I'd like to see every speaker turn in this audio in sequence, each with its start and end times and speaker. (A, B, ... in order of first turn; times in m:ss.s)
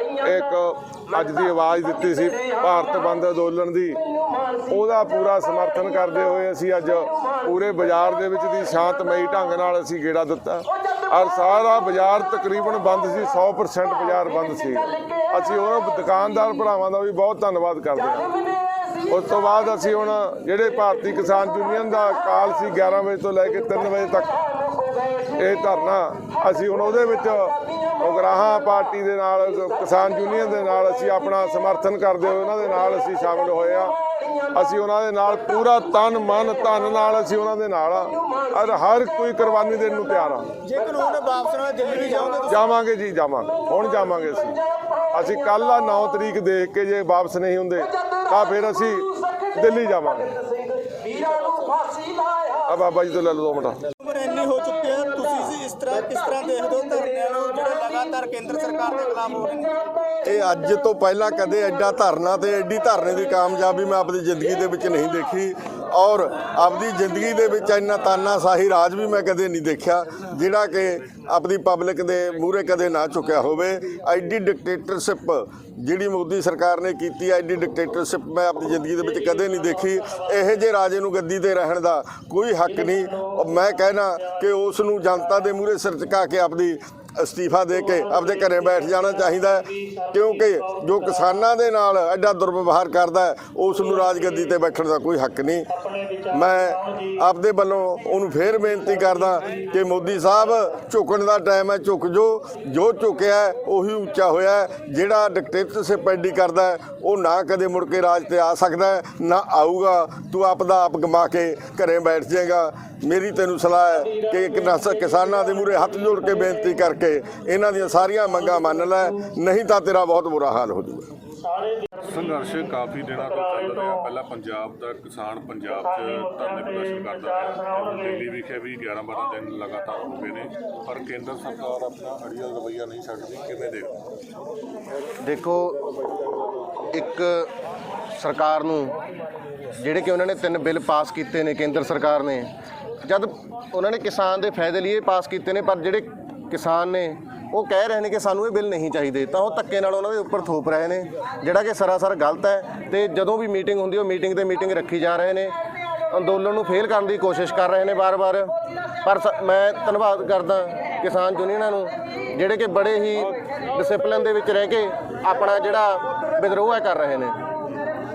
0:00.2-0:04.0 A
0:04.7-0:18.3 A
0:19.1-0:24.4 A
0:25.4-0:34.0 A
0:34.5-0:40.5 A
0:40.6-0:42.7 B
0:42.5-0:44.6 A
0:45.1-0:50.3 A
0:52.7-0:53.8 A
0:54.0-1:00.0 B
1:00.2-1:35.7 C
1:36.2-2:01.1 C
2:02.0-2:13.9 D
2:15.2-2:15.8 E
2:16.9-2:17.5 E
2:18.2-2:18.9 E
2:19.8-2:22.5 E
2:23.0-2:35.5 E
2:36.1-2:38.5 E
2:39.0-2:47.4 E